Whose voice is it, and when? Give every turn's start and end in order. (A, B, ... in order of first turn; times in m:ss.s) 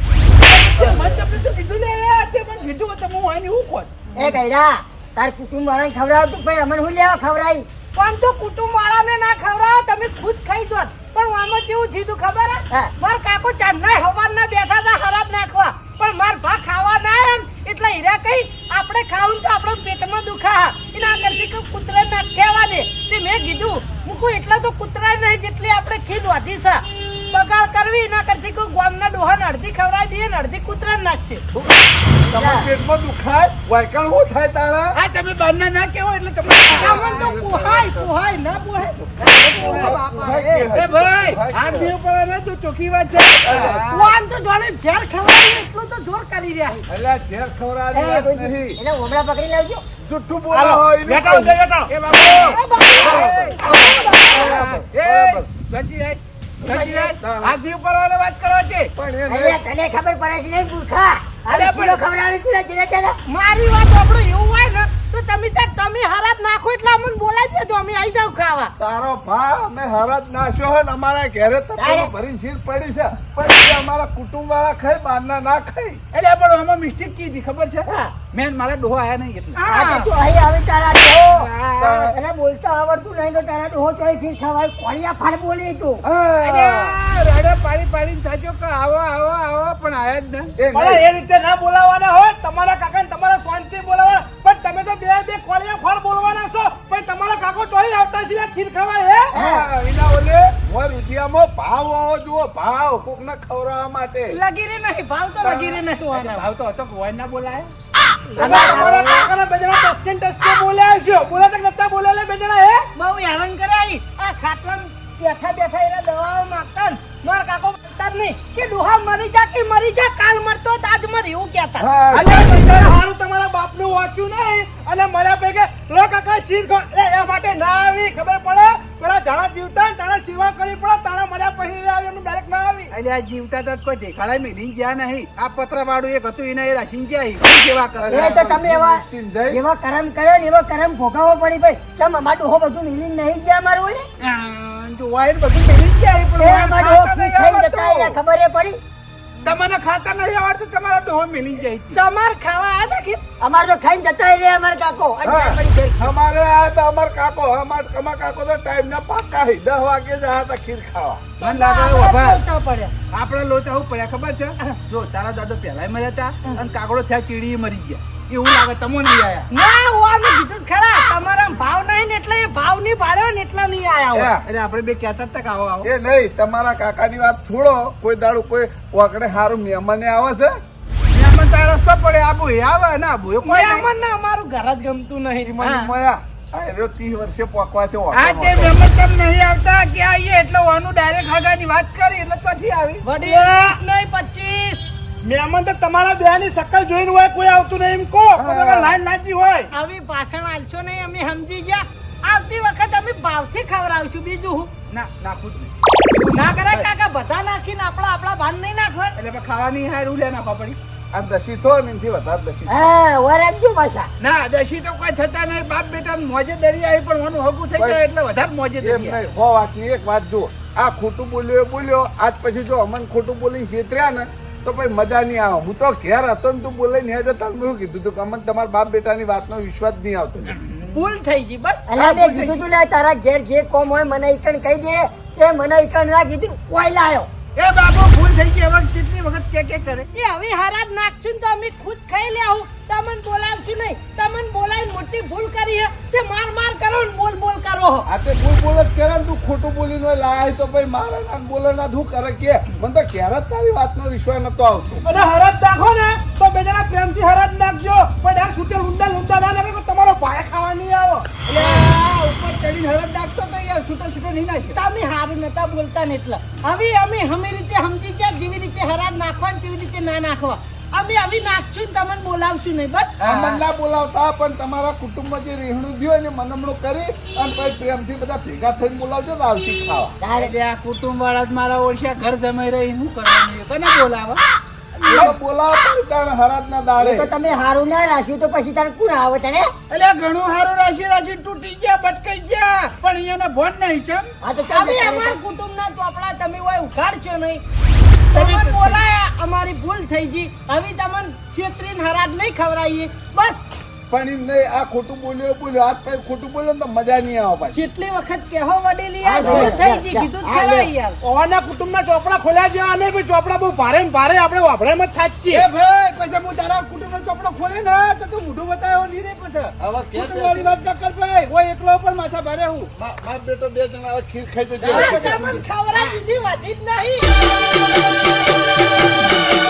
0:00.5-0:00.8 A
0:00.7-0:04.0 B
0:04.2-0:07.7 C
0:08.0-0:31.4 A
0:31.6-0:35.0 D
0:32.3-0:32.7 C
0:34.9-0:37.4 B
0:36.5-0:38.1 D
0:36.7-0:40.7 A
0:39.0-0:41.9 D
0:39.2-0:40.0 B
0:40.7-0:44.1 B
0:43.4-0:43.9 D
0:43.9-0:46.8 A
0:46.9-0:48.8 D
0:47.9-0:49.8 C
0:50.0-0:51.6 D
0:50.5-0:52.6 E
0:51.9-0:58.9 B
0:52.2-0:54.6 A
0:53.0-0:55.5 D
0:56.6-0:57.6 D
0:59.0-0:59.6 D
0:59.3-1:03.2 C
1:01.5-1:02.0 B
1:03.3-1:08.7 A
1:08.8-1:16.0 D
1:11.8-1:12.1 C
1:16.1-1:19.8 B
1:17.9-1:18.2 C
1:19.6-1:20.1 A
1:19.7-1:26.0 C
1:21.3-1:22.1 B
1:26.0-1:27.0 D
1:26.4-1:30.6 B
1:30.6-1:31.1 D
1:30.7-1:39.3 E
1:39.3-1:39.7 C
1:39.3-1:44.4 D
1:44.3-1:46.5 A
1:45.4-1:45.8 D
1:46.1-1:47.7 B
1:48.3-1:49.3 D
1:48.4-1:49.1 C
1:48.4-1:52.9 E
1:48.5-1:49.0 A
1:53.0-2:01.9 A
2:01.8-2:03.0 D
2:02.1-2:12.9 E
2:12.9-2:18.5 B
2:18.0-2:19.6 D
2:18.1-2:24.1 C
2:24.2-2:28.2 B
2:26.4-2:28.8 C
2:29.4-2:32.0 B
2:31.9-2:33.2 A
2:33.4-2:36.1 C
2:35.2-2:41.3 D
2:41.4-2:42.4 B
2:41.4-2:42.9 A
2:43.1-2:49.5 B
2:49.5-2:54.3 A
2:54.1-2:54.4 D
2:54.5-2:55.9 B
2:55.8-3:00.6 D
3:01.1-3:03.9 B
3:03.4-3:05.6 A
3:05.4-3:08.8 D
3:05.6-3:05.9 B
3:08.1-3:13.2 B
3:13.0-3:14.9 A
3:13.2-3:13.8 E
3:15.2-3:19.7 E
3:18.4-3:19.0 D
3:19.7-3:24.7 A
3:24.9-3:26.9 B
3:26.2-3:29.2 A
3:29.2-3:30.8 B
3:31.1-3:32.9 D
3:32.7-3:34.1 C
3:34.2-3:39.2 B
3:38.8-3:50.6 D
3:50.6-3:50.9 B
3:50.9-3:51.9 A
3:51.9-3:57.3 C
3:52.0-3:52.6 B
3:57.6-4:00.1 B
4:00.1-4:08.1 A
4:08.1-4:15.1 D
4:15.0-4:21.4 E
4:21.5-4:24.8 B
4:24.8-4:33.2 A
4:33.2-4:33.6 B
4:33.3-4:40.2 D
4:40.2-4:40.5 C
4:40.4-4:44.4 B
4:45.1-4:45.4 B
4:45.1-4:47.3 D
4:47.0-4:49.7 C
4:49.9-4:54.3 B
4:54.4-4:55.4 C
4:54.7-4:57.6 A
4:58.3-5:03.6 A
4:58.3-4:59.0 B
5:04.1-5:07.8 D
5:07.7-5:11.2 A
5:09.2-5:10.9 C
5:09.4-5:09.8 D
5:11.2-5:15.7 E
5:15.5-5:22.9 B
5:19.8-5:20.8 D
5:23.0-5:25.6 D
5:24.8-5:25.4 B
5:24.9-5:27.3 A